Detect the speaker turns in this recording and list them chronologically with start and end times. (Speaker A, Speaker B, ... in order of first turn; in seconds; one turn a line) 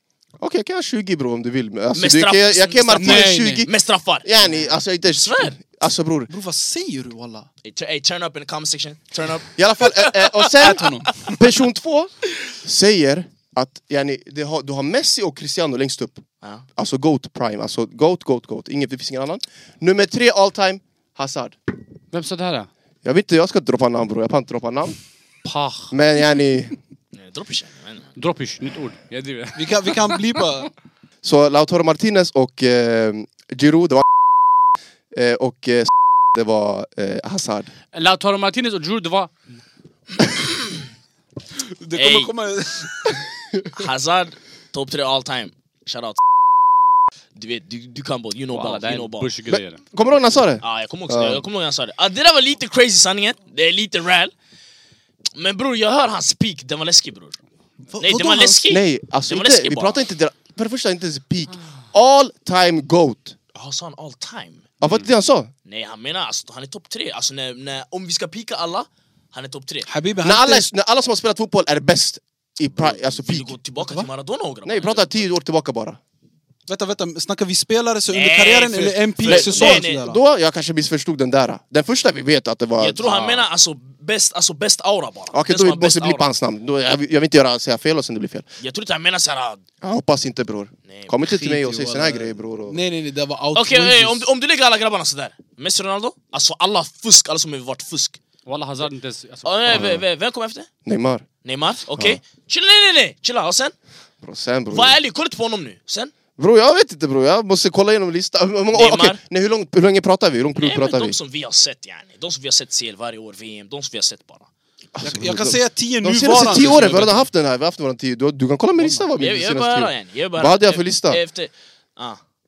Speaker A: 0.4-3.7
Speaker B: 2.0-4.3
Speaker C: 3.0-3.7
Speaker A: 4.2-6.3
Speaker B: 5.1-5.6
Speaker C: 6.3-7.5
Speaker B: 7.6-11.4
Speaker A: 9.6-12.1
Speaker C: 10.6-11.3
Speaker A: 12.6-16.2
Speaker A: 16.8-21.6
Speaker D: 22.1-22.7
Speaker A: 23.0-25.0
Speaker D: 25.4-25.9
Speaker A: 25.9-26.8
Speaker B: 27.1-28.1
Speaker D: 28.2-30.2
Speaker C: 29.6-30.7
Speaker A: 31.2-34.1
Speaker A: 35.1-37.7
Speaker D: 37.9-39.3
Speaker C: 41.6-43.2
Speaker B: 42.0-42.3
Speaker B: 43.7-46.2
Speaker B: 47.4-49.3
Speaker D: 48.5-49.8
Speaker A: 49.5-51.4
Speaker B: 50.6-54.3
Speaker B: 55.4-57.4
Speaker C: 57.9-58.7
Speaker B: 58.0-60.0
Speaker A: 58.7-63.4
Speaker B: 63.5-64.9
Speaker A: 64.8-65.5
Speaker B: 65.7-69.9
Speaker C: 69.9-70.7
Speaker A: 70.2-73.5
Speaker B: 72.8-75.2
Speaker C: 73.8-74.1
Speaker A: 74.7-76.0
Speaker C: 76.7-80.2
Speaker B: 78.1-80.0
Speaker A: 79.3-83.5
Speaker B: 82.8-86.2
Speaker A: 85.3-88.5
Speaker B: 88.6-89.6
Speaker A: 89.8-92.8
Speaker B: 90.9-91.2
Speaker C: 91.2-94.3
Speaker B: 93.5-98.2
Speaker D: 98.5-99.9
Speaker B: 99.5-100.7
Speaker A: 99.7-100.0
Speaker A: 100.9-101.3
Speaker B: 101.4-103.7
Speaker A: 101.9-102.2
Speaker A: 104.2-105.0
Speaker B: 104.7-106.1
Speaker A: 106.4-111.2
Speaker B: 108.7-109.2
Speaker B: 110.6-114.5
Speaker A: 115.0-121.2
Speaker C: 115.0-117.3
Speaker C: 118.8-119.0
Speaker B: 119.2-122.2